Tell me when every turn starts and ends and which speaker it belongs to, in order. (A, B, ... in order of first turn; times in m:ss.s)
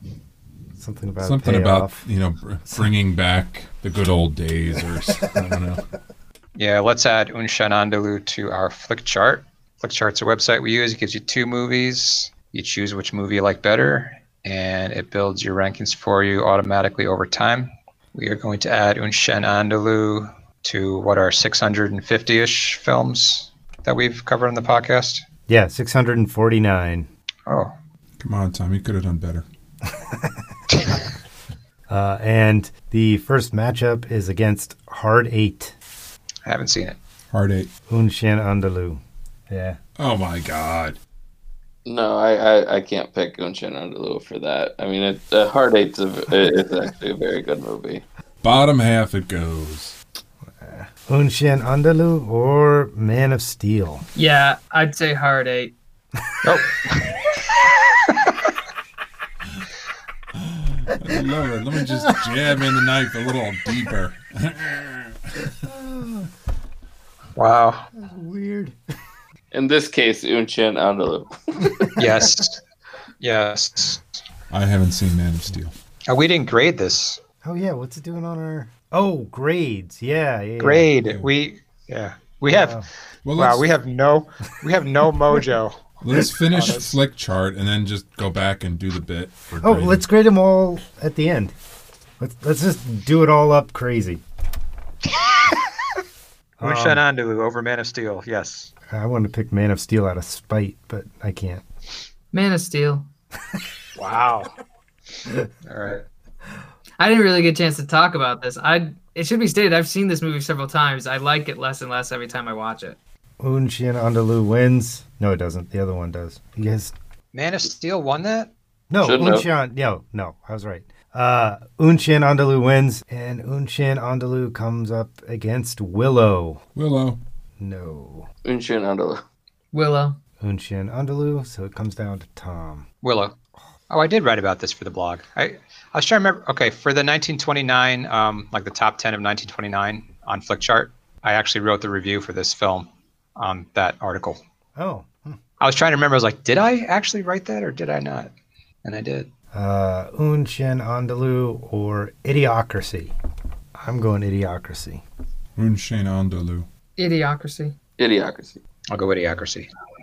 0:00.8-0:02.0 A
0:01.2-0:05.8 B
0:06.6-0:25.2 C
0:25.5-0:27.1 A
0:27.5-0:27.7 C
0:28.2-0:29.5 B
0:29.9-0:30.4 A
0:31.9-0:35.8 A
0:36.5-0:37.0 C
0:37.3-0:37.7 B
0:37.9-0:39.8 A
0:40.0-0:41.0 B
0:41.8-0:48.0 D
0:48.4-0:50.0 B
0:50.6-0:54.0 A
0:54.2-0:55.7 E
0:56.4-0:58.3 C
1:00.4-1:05.6 B
1:05.6-1:06.3 A
1:07.4-1:07.9 C
1:08.0-1:08.8 A
1:09.5-1:11.9 D
1:12.0-1:12.6 C
1:13.2-1:14.0 C
1:14.5-1:15.7 B
1:16.1-1:17.2 C
1:17.4-1:20.9 A
1:20.6-1:27.0 C
1:22.5-1:22.9 A
1:23.2-1:23.7 B
1:26.0-1:30.0 B
1:29.6-1:31.5 A
1:32.2-1:34.2 A
1:35.1-1:35.6 C
1:36.6-1:37.0 A
1:36.6-1:38.7 C
1:38.9-1:41.6 A
1:42.3-1:43.1 E
1:44.0-1:44.5 C
1:45.6-1:46.0 C
1:47.0-1:53.0 E
1:53.4-1:56.9 A
1:57.3-1:58.5 C
1:58.9-2:06.6 A
1:59.0-1:59.5 D
2:06.8-2:07.2 B
2:07.6-2:08.3 A
2:08.4-2:09.2 D
2:09.7-2:10.2 E
2:10.4-2:12.9 A
2:13.0-2:13.4 C
2:13.9-2:24.4 C
2:24.8-2:25.4 A
2:25.6-2:28.3 C
2:28.8-2:29.3 C
2:29.5-2:33.1 A
2:33.8-2:35.0 A
2:35.6-2:36.7 B
2:37.0-2:37.8 E
2:38.0-2:38.6 D
2:38.9-2:39.7 C